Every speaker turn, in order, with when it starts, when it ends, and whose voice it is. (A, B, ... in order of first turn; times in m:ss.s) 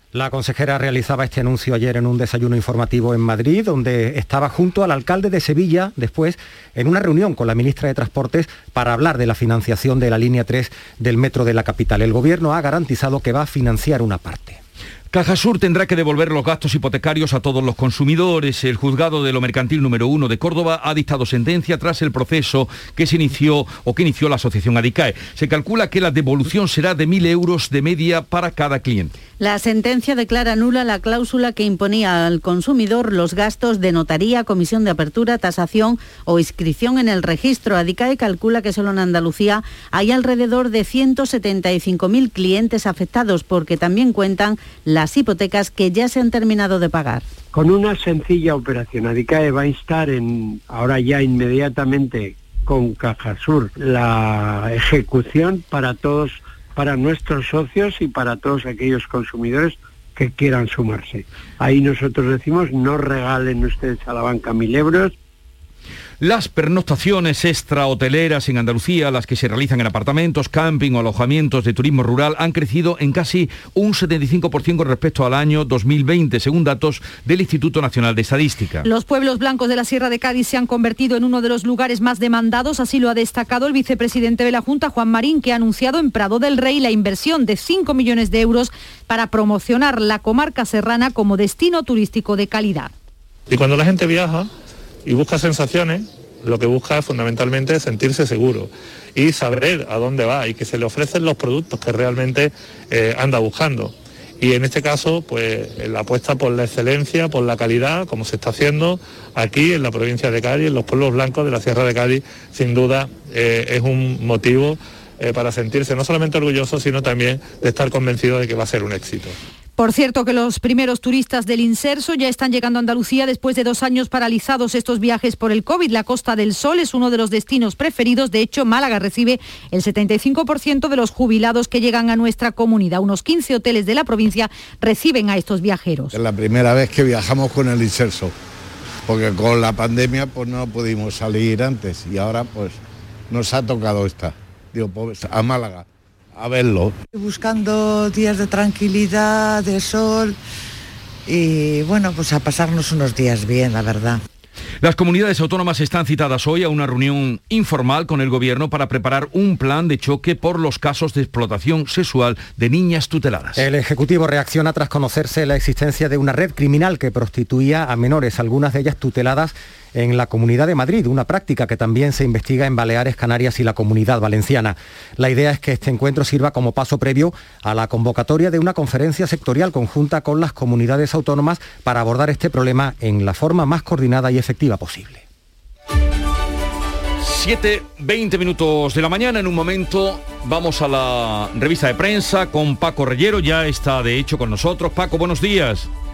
0:00.1-0:14.6 A
0:15.1-0:29.1 B
0:29.4-0:47.3 C
0:47.5-1:05.1 D
1:06.2-1:18.9 B
1:18.8-1:32.9 E
1:33.5-1:34.5 F
1:35.0-1:59.4 F
1:59.8-2:16.2 E
2:16.1-2:18.3 G
2:19.1-2:22.8 G
2:23.3-2:27.0 G
2:27.4-2:29.6 H
2:31.6-2:33.8 H
2:34.8-2:43.6 B
2:43.6-3:05.2 A
3:07.2-3:15.9 B